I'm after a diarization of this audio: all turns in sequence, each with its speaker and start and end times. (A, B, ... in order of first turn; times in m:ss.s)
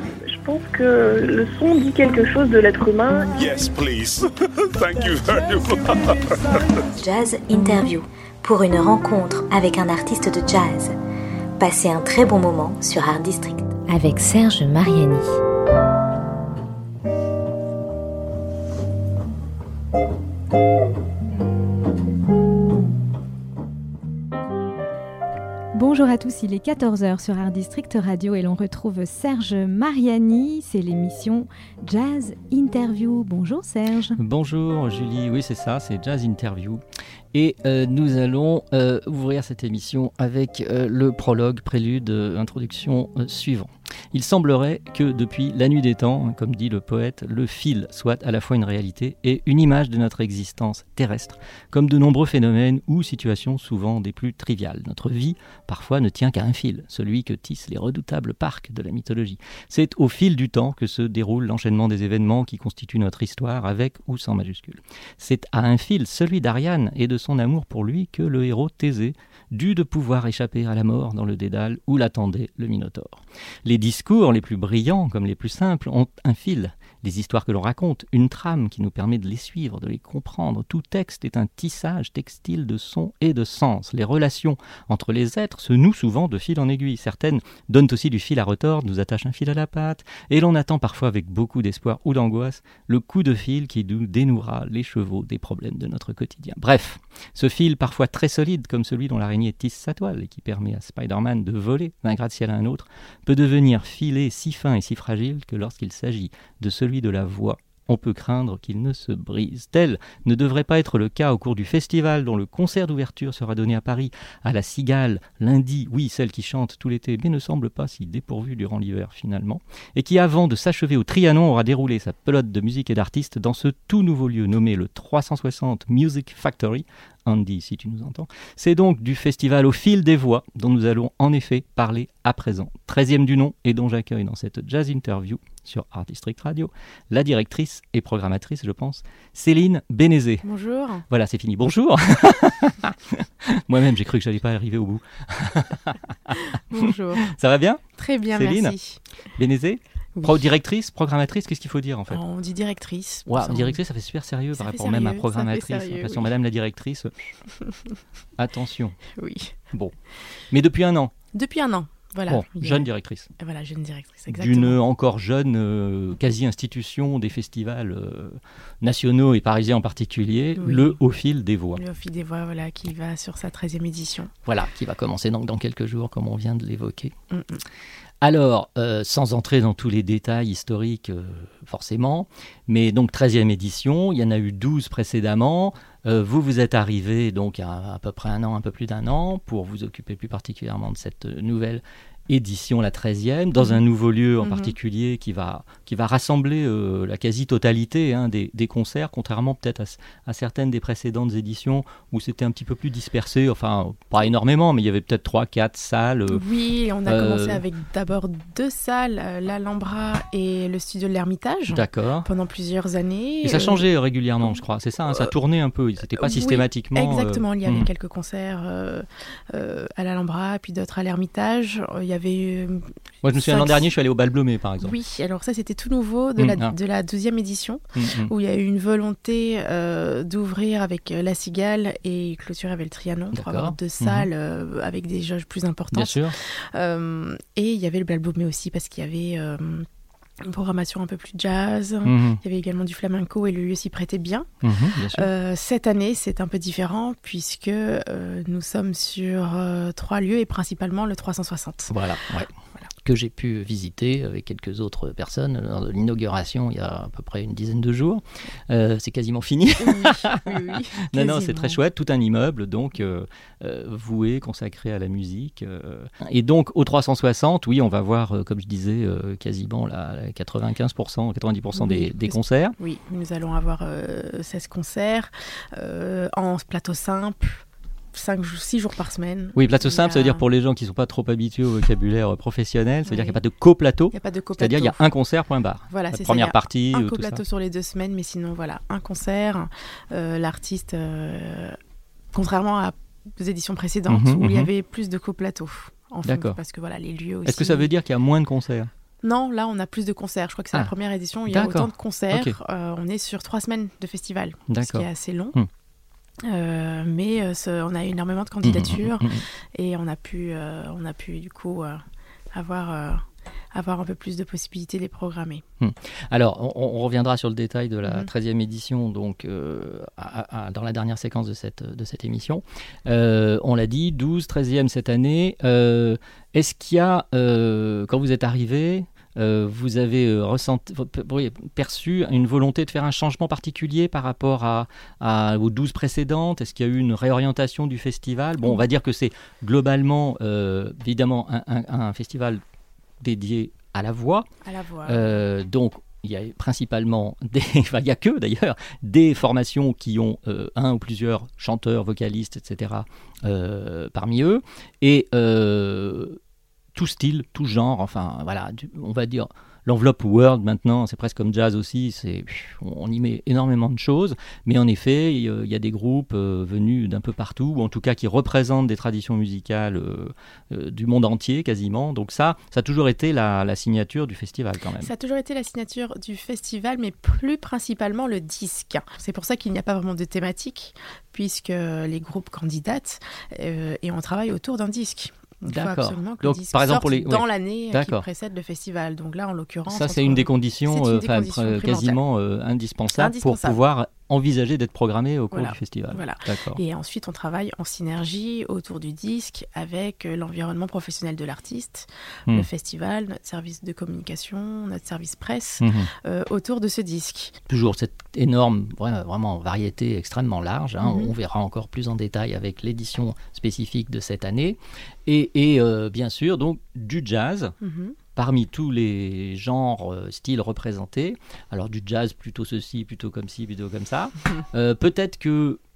0:00.2-0:03.3 A
0:03.4-0:06.6 B
0:07.0-0:10.9 C
0:11.6-0:15.3 C
0:25.7-0:34.2 D
0:34.2-0:36.8 E
0:37.3-2:20.4 E
2:20.4-2:21.0 F
2:21.1-2:28.8 E
2:26.5-2:27.2 F
2:27.9-2:29.0 F
2:29.3-2:32.2 E
2:32.1-2:33.8 F
2:33.3-2:37.4 E
2:34.5-2:36.3 F
2:37.6-2:38.0 F
2:38.4-2:39.0 E
2:39.2-2:39.6 F
2:40.5-2:41.1 E
2:41.3-2:42.9 F
2:42.3-2:43.3 E
2:43.4-2:44.8 F
2:44.3-2:51.8 E
2:50.6-2:51.0 F
2:51.8-2:54.3 F
2:54.4-2:57.1 E
2:57.3-2:57.6 F
2:58.2-3:26.4 E
3:14.4-3:14.8 F
3:26.3-3:33.9 F
3:27.0-3:27.6 E
3:31.7-3:32.3 E
3:33.4-3:37.9 E
3:36.2-3:43.9 F
3:43.2-3:45.0 E
3:44.8-3:59.9 F
3:46.4-3:46.7 E
3:47.9-3:48.3 E
3:53.3-3:54.3 E
3:55.9-3:56.4 E
4:00.4-4:04.5 F
4:02.0-4:02.4 E
4:04.6-4:05.3 E
4:05.1-4:11.9 F
4:11.9-4:12.5 E
4:13.0-4:32.8 E
4:19.8-4:21.8 F
4:31.8-4:40.4 F
4:39.6-4:47.4 E
4:43.1-4:43.4 F
4:44.1-4:45.0 F
4:45.9-4:51.8 F
4:52.3-4:57.9 F
4:54.1-4:54.7 E
4:56.2-4:56.6 E
4:57.4-4:58.9 E
4:59.2-5:05.6 F
5:01.5-5:02.6 E
5:04.7-5:05.7 E
5:06.4-5:12.0 F
5:08.6-5:09.4 E
5:12.5-5:15.6 F
5:15.8-5:42.6 E
5:43.2-5:44.5 E
5:44.6-5:45.4 F
5:45.1-5:56.4 E
5:56.9-6:15.1 E
6:15.0-6:32.2 F
6:25.7-6:28.2 E
6:29.9-6:36.8 E
6:33.2-6:33.8 F
6:35.5-6:47.6 F
6:45.8-6:46.1 E
6:47.7-6:57.8 E
6:51.0-6:51.3 F
6:57.8-6:58.2 F
6:58.4-7:05.8 E